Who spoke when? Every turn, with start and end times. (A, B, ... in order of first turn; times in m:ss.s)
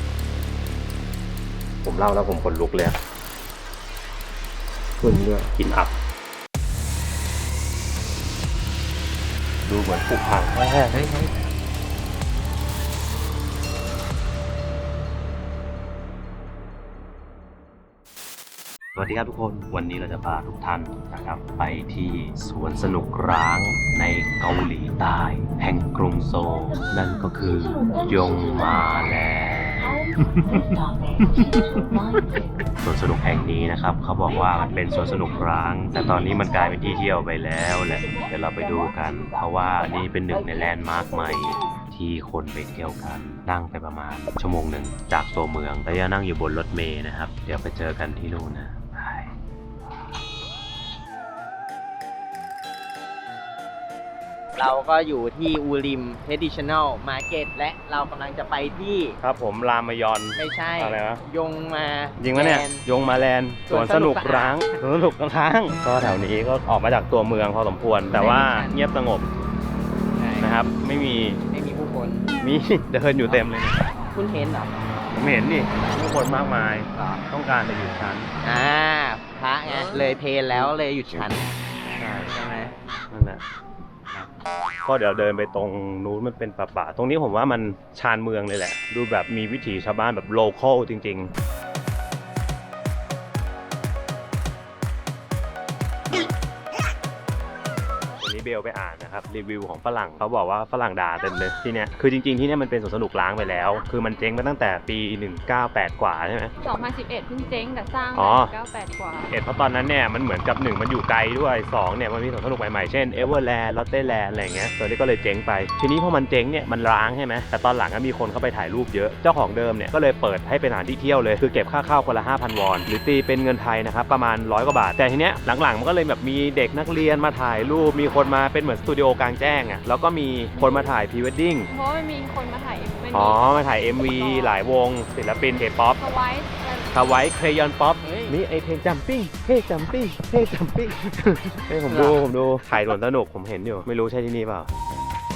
0:01.8-0:03.0 A
0:05.0-0:05.5 B
0:05.6-0:06.0 A
0:09.7-0:11.0 A
0:10.9-0:11.5 B
0:19.0-0:31.4 A
0:32.8-0:49.3 A
0:54.6-0:59.2 B
0:59.2-1:01.2 A
1:00.4-1:02.8 B
1:02.2-1:09.3 A
1:03.7-1:04.8 B
1:08.1-1:08.8 B
1:10.1-1:10.6 B
1:10.4-1:11.4 A
1:11.5-1:12.3 B
1:12.4-1:13.9 A
1:14.1-1:14.8 B
1:15.1-1:18.3 A
1:16.9-1:17.2 B
1:18.1-1:21.5 B
1:22.0-1:22.4 A
1:22.3-1:22.7 B
1:23.1-1:23.4 A
1:24.9-1:31.3 A
1:38.2-1:46.5 A
1:46.6-1:49.3 C
1:48.2-1:48.6 A
1:49.3-2:11.7 A
2:10.6-2:10.9 C
2:11.7-2:14.6 C
2:13.1-2:16.0 A
2:16.0-2:17.0 C
2:16.9-2:24.7 A
2:18.0-2:18.4 B
2:20.9-2:22.6 B